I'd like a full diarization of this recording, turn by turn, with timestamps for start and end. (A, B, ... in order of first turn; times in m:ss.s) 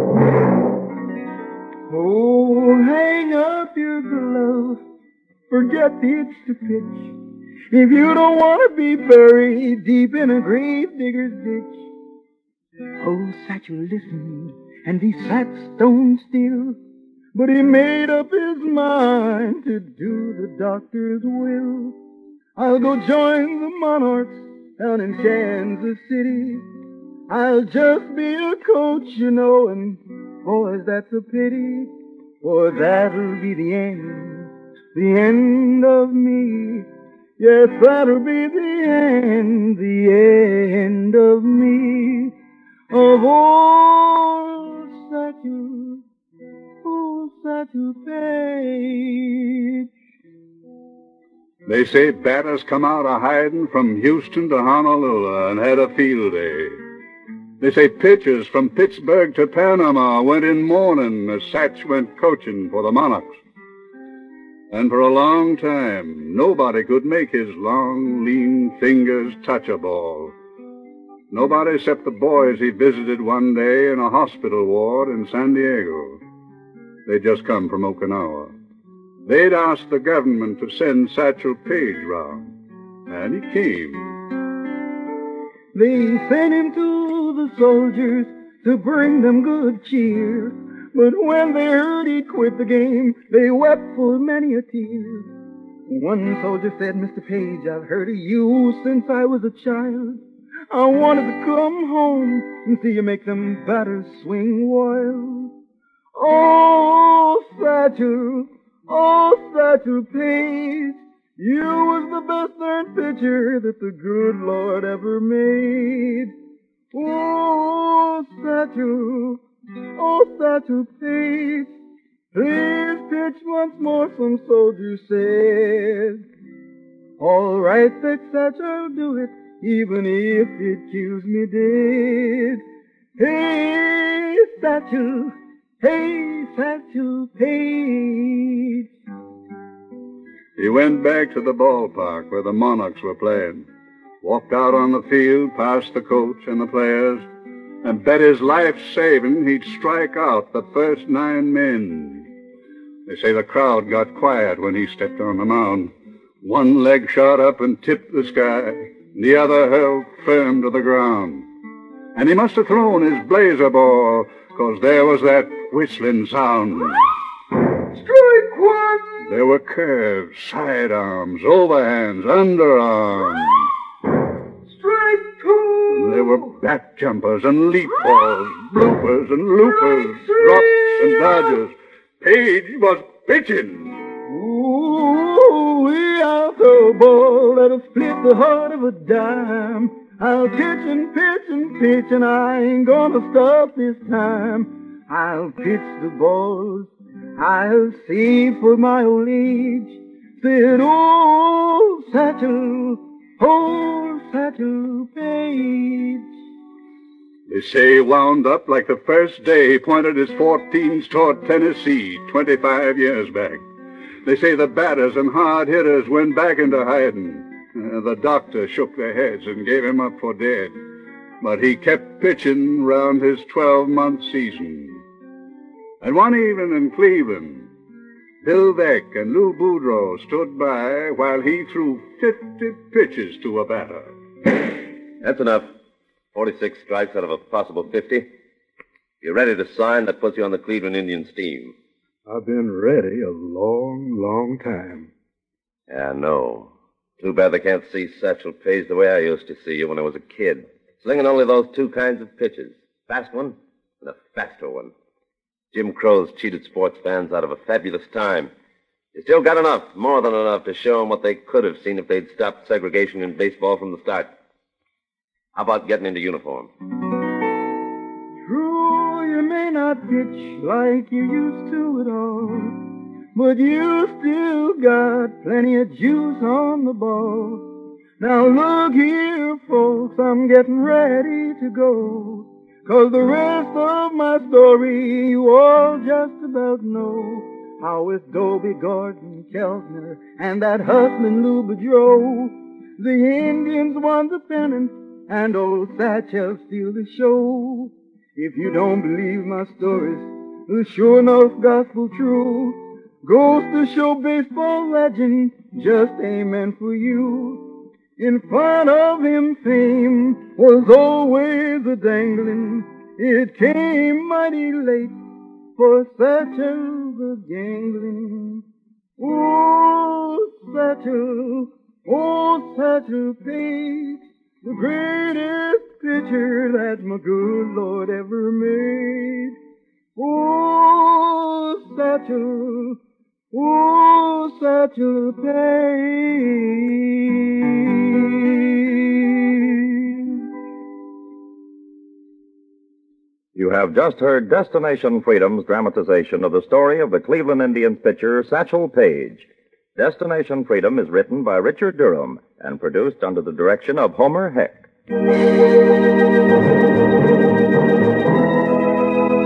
0:01.9-0:04.8 A
0:05.5-0:07.1 A
0:07.7-0:11.9 A
0:13.0-0:16.8 A
0:17.3-0:22.0 A
0:22.6-0:26.6 A
0:27.3-0:36.8 A
0:37.4-0:42.3 A
0:42.9-0:46.0 A
0:46.8-0:49.9 A
0:51.7-0:56.8 B
0:57.6-1:03.4 B
1:04.7-1:10.3 B
1:11.3-1:16.2 B
1:17.0-1:18.5 B
1:19.2-1:22.5 B
1:23.1-1:24.2 B
1:25.7-1:35.3 A
1:35.9-1:45.5 A
1:46.1-1:56.3 A
1:56.9-1:59.4 A
2:00.0-2:01.7 A
2:02.3-2:06.2 A
2:07.2-2:12.6 A
2:13.2-2:18.8 A
2:20.6-2:23.6 B
2:24.2-2:27.2 B
2:27.8-2:32.3 B
2:33.1-2:41.5 B
2:42.2-2:47.1 B
2:47.9-2:49.3 A
2:49.2-2:53.7 B
2:54.7-2:56.5 A
2:55.9-3:04.0 B
2:59.8-3:01.6 A
3:04.3-3:26.2 A
3:27.5-3:33.6 B
3:34.2-3:40.8 B
3:41.4-3:45.0 B
3:46.0-3:47.7 B
3:48.4-3:54.1 B
3:55.2-3:55.7 C
3:56.3-3:58.3 C
3:59.2-4:01.7 C
4:02.3-4:05.1 D
4:05.9-4:14.9 C
4:15.7-4:18.5 C
4:19.1-4:24.3 C
4:25.5-4:26.7 C
4:28.5-4:32.8 A
4:33.3-4:37.7 A
4:38.2-5:15.2 A
5:15.8-5:18.6 A
5:19.2-5:29.5 A
5:30.2-5:33.0 A
5:33.5-5:38.9 A
5:43.6-5:54.8 E